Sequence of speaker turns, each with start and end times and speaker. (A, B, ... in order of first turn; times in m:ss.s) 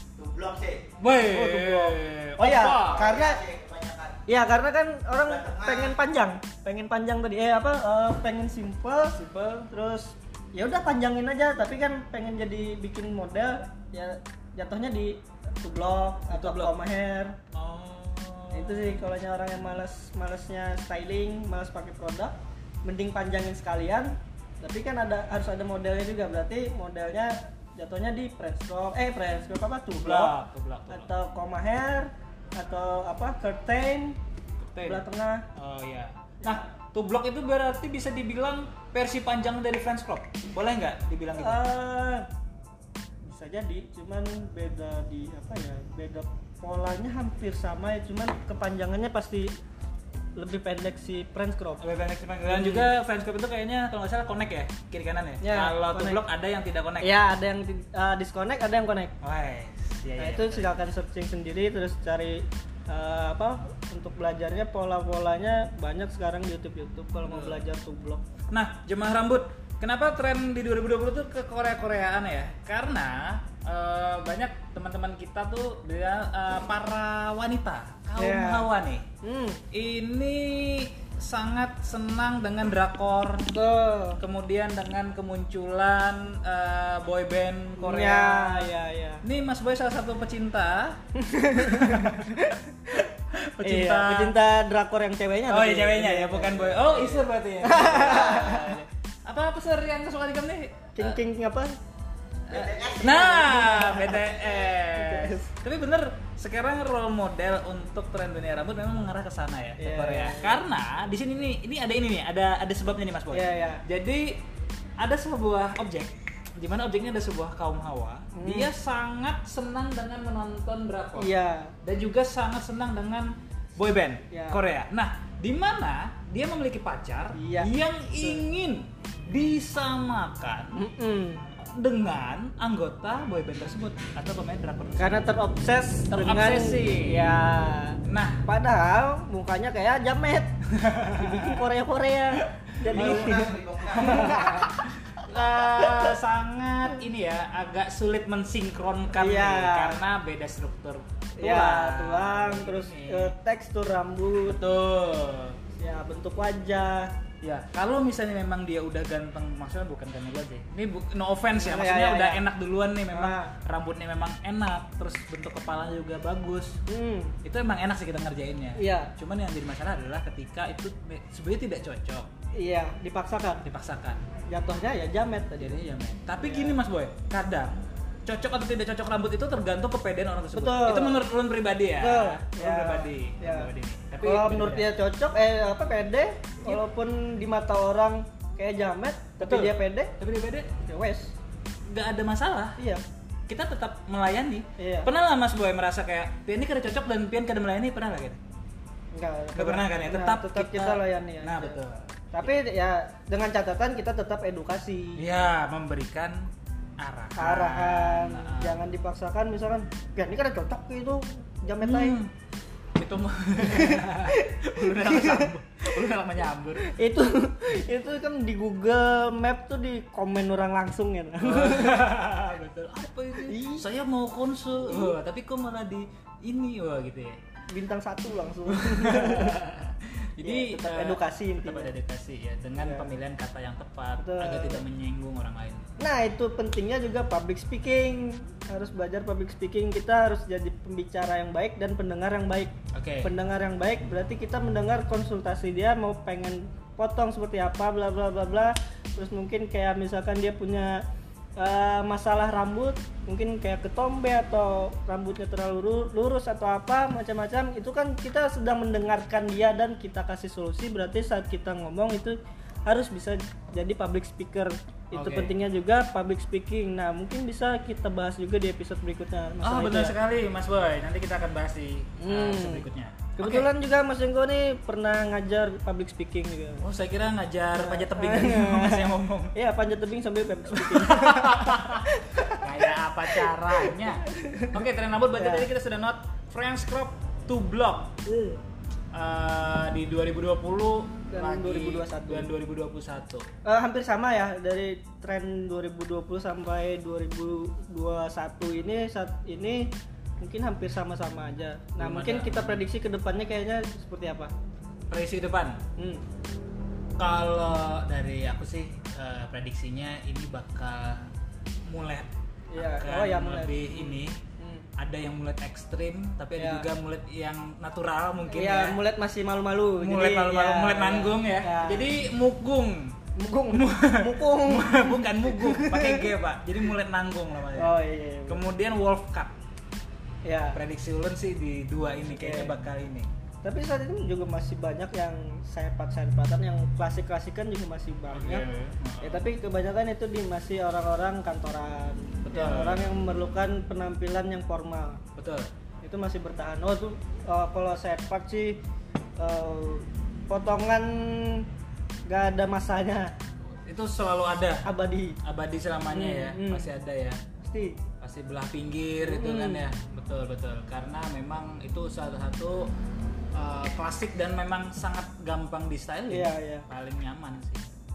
0:00.2-0:00.8 A
0:01.0-0:03.2 B
0:01.2-0:03.5 C
0:03.2-0:04.2 A
0:04.2-0:17.4 C
0:16.3-0:16.7 B
0:17.5-0:19.2 B
0:18.5-0:30.4 C
0:30.0-0:31.1 B
0:30.9-0:34.2 C
0:34.6-0:35.0 B
0:34.8-0:35.4 C
0:35.6-0:41.6 B
0:41.4-0:42.2 C
0:43.2-0:49.5 C
0:50.4-0:51.9 C
0:51.8-0:57.2 B
0:52.4-0:52.9 C
0:55.4-0:56.2 C
0:57.0-0:59.1 C
0:59.2-1:00.8 B
1:00.2-1:08.2 C
1:07.2-1:07.6 B
1:08.5-1:19.0 B
1:18.2-1:18.7 C
1:19.2-1:19.6 C
1:19.7-1:23.5 B
1:23.5-1:24.2 C
1:24.2-1:31.0 B
1:27.8-1:29.2 C
1:31.2-1:33.0 C
1:31.6-1:32.4 B
1:32.9-1:34.4 B
1:33.6-1:38.8 C
1:35.5-1:41.2 B
1:41.0-1:41.7 C
1:42.5-1:54.4 B
1:42.8-1:45.5 C
1:49.8-1:50.6 C
1:53.3-1:53.8 C
1:55.0-2:01.3 B
1:58.3-1:58.7 C
2:01.2-2:01.7 C
2:01.8-2:10.8 B
2:04.3-2:04.6 C
2:07.4-2:08.4 C
2:10.8-2:11.4 C
2:11.6-2:15.2 B
2:15.0-2:20.5 C
2:16.1-2:17.2 B
2:18.0-2:18.4 B
2:20.7-2:21.6 B
2:21.1-2:24.8 C
2:22.7-2:33.3 B
2:23.4-2:23.9 A
2:29.2-2:30.0 C
2:31.4-2:34.6 C
2:34.4-2:35.6 B
2:35.8-2:37.1 C
2:37.4-2:46.8 B
2:41.6-2:42.4 C
2:43.1-2:43.5 C
2:46.9-2:47.4 C
2:47.4-2:52.3 B
2:48.8-2:49.1 C
2:52.6-2:53.6 C
2:53.6-2:54.2 B
2:54.5-2:55.8 C
2:55.6-3:04.9 B
2:56.4-2:56.8 C
3:00.5-3:01.2 C
3:02.0-3:03.7 C
3:04.2-3:10.1 C
3:09.4-3:10.7 B
3:10.8-3:11.3 C
3:11.9-3:12.8 B
3:13.5-3:18.4 B
3:14.8-3:15.1 C
3:19.1-3:21.8 C
3:19.6-3:22.1 B
3:22.3-3:25.2 C
3:25.2-3:28.8 B
3:27.4-3:32.2 C
3:31.8-3:32.3 B
3:33.0-3:36.9 B
3:33.6-3:35.5 C
3:36.8-3:42.0 C
3:41.4-3:47.4 B
3:43.5-3:43.9 C
3:44.9-3:45.1 C
3:47.7-3:49.6 C
3:48.7-3:55.8 B
3:50.4-3:51.9 C
3:52.8-3:53.1 C
3:54.2-3:54.8 C
3:56.0-4:11.0 C
4:02.9-4:03.3 B
4:11.6-4:30.1 C
4:25.1-4:25.6 B
4:29.6-4:33.7 B
4:32.2-4:32.9 C
4:33.4-4:36.8 C
4:36.8-4:39.5 B
4:37.8-4:44.8 C
4:40.7-4:48.4 B
4:45.4-4:45.7 C
4:49.1-4:53.5 B
4:51.3-4:52.5 C
4:53.6-4:59.9 C
5:00.4-5:04.5 C
5:02.0-5:02.8 B
5:05.1-5:05.8 B
5:06.0-5:06.2 C
5:07.2-5:11.3 B
5:11.9-5:14.4 B
5:12.7-5:14.9 C
5:15.0-5:19.0 B
5:16.6-5:16.9 C
5:18.5-5:22.1 C
5:20.0-5:23.2 B
5:23.4-5:26.3 C
5:23.7-5:27.9 B
5:27.8-5:28.7 C
5:28.5-5:29.5 B
5:30.4-5:30.8 C
5:30.7-5:33.3 B
5:32.3-5:32.8 C
5:33.6-5:38.6 C
5:38.3-5:39.4 B
5:39.2-5:45.2 C
5:42.5-5:43.0 B
5:45.4-5:45.7 B
5:46.0-5:48.8 C
5:49.4-5:51.6 C
5:52.3-5:53.3 C
5:53.8-5:54.9 B
5:54.8-5:55.4 C
5:55.4-5:57.4 B
5:56.1-5:56.9 C
5:57.6-5:58.0 C
5:58.2-6:02.9 B
5:59.2-5:59.9 C
6:03.5-6:07.8 B
6:06.3-6:06.8 C